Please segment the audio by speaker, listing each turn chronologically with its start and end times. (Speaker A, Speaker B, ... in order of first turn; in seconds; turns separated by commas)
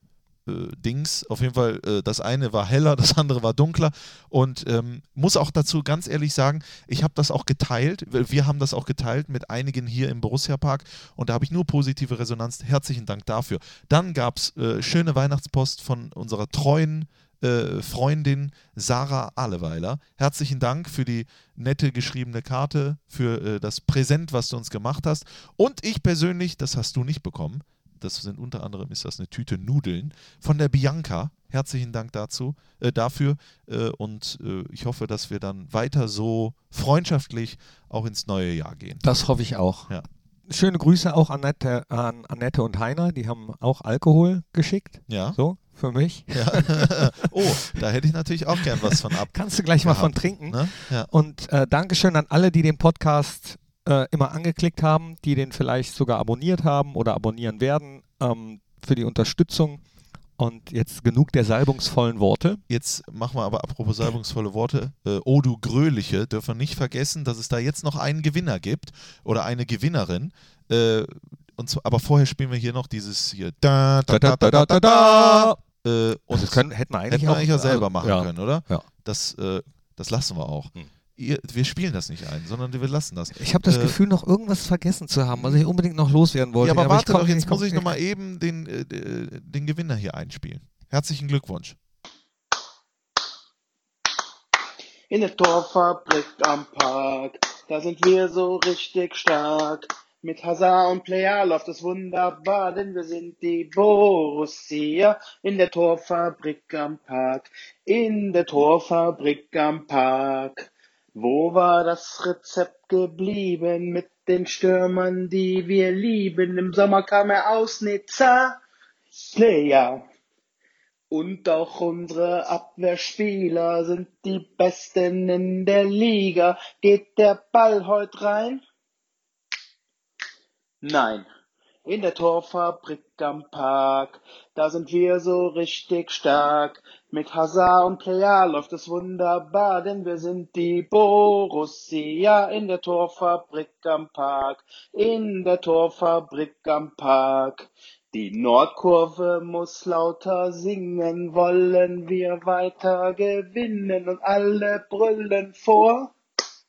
Speaker A: 0.5-39.0, Speaker B: 39.0-39.9, Speaker B: 40.5-47.8, Speaker A: 45.1-45.4, Speaker A: 46.3-51.1, Speaker B: 48.7-59.8, Speaker B: 60.4-62.6, Speaker A: 62.7-84.0, Speaker B: 74.1-75.6, Speaker B: 76.3-78.9, Speaker B: 83.3-87.9, Speaker A: 85.3-85.6, Speaker A: 86.6-91.8, Speaker C: 95.1-118.6, Speaker C: 119.2-120.0, Speaker C: 121.1-128.6, Speaker C: 130.8-131.3, Speaker C: 131.8-156.1